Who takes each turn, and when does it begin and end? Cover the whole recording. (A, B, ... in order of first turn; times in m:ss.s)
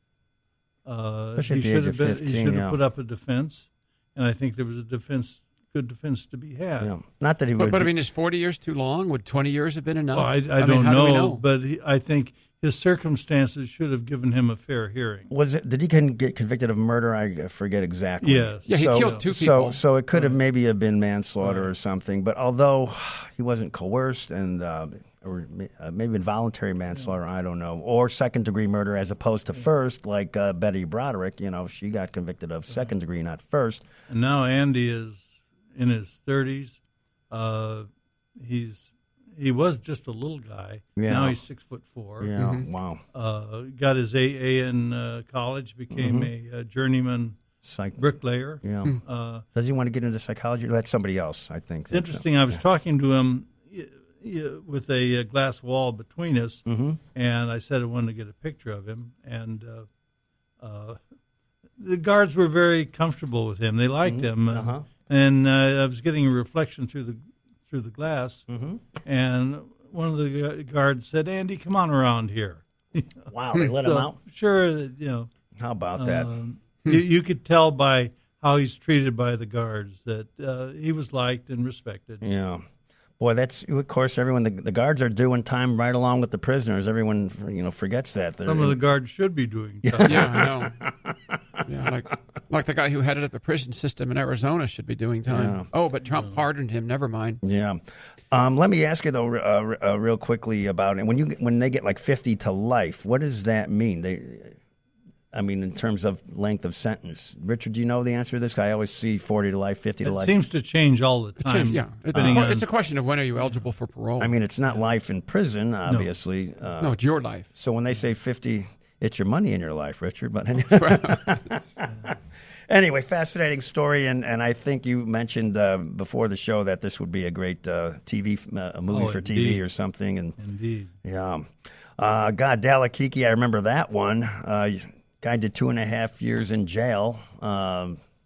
0:00.8-0:06.9 A
0:01.4-0:02.8 B
0:06.8-0:07.9 B
0:07.6-0:11.4 C
0:10.1-0:15.3 A
0:15.3-0:33.8 B
0:18.2-0:19.2 A
0:18.7-0:19.8 C
0:20.1-0:20.4 A
0:21.4-0:21.7 A
0:34.1-0:36.8 A
0:37.3-0:42.3 A
0:41.0-0:41.4 B
0:42.2-0:43.0 B
0:42.4-0:42.7 C
0:43.1-0:47.4 A
0:45.9-0:46.3 B
0:47.6-0:48.0 B
0:48.0-0:49.4 A
0:48.6-0:49.0 B
0:49.6-0:52.2 B
0:51.9-0:56.6 A
0:56.7-0:57.0 B
0:57.2-0:59.9 A
1:00.6-1:01.0 A
1:01.8-1:08.5 A
1:04.0-1:04.8 B
1:08.5-1:08.8 B
1:09.0-1:15.3 A
1:13.3-1:14.2 B
1:15.6-1:16.3 B
1:16.0-1:22.2 A
1:22.2-1:22.6 B
1:23.2-1:28.8 B
1:28.4-1:30.3 A
1:29.8-1:31.4 B
1:30.0-1:30.8 C
1:31.7-1:37.4 C
1:35.3-1:35.7 B
1:37.4-1:44.6 B
1:45.3-1:50.3 B
1:50.0-1:52.6 A
1:51.4-1:54.4 C
1:52.1-1:52.5 B
1:54.2-1:57.0 B
1:56.8-1:57.5 C
1:57.6-2:02.1 B
2:00.7-2:01.5 C
2:01.9-2:02.2 A
2:02.7-2:10.4 B
2:08.9-2:09.6 A
2:10.4-2:10.9 A
2:11.0-2:18.0 B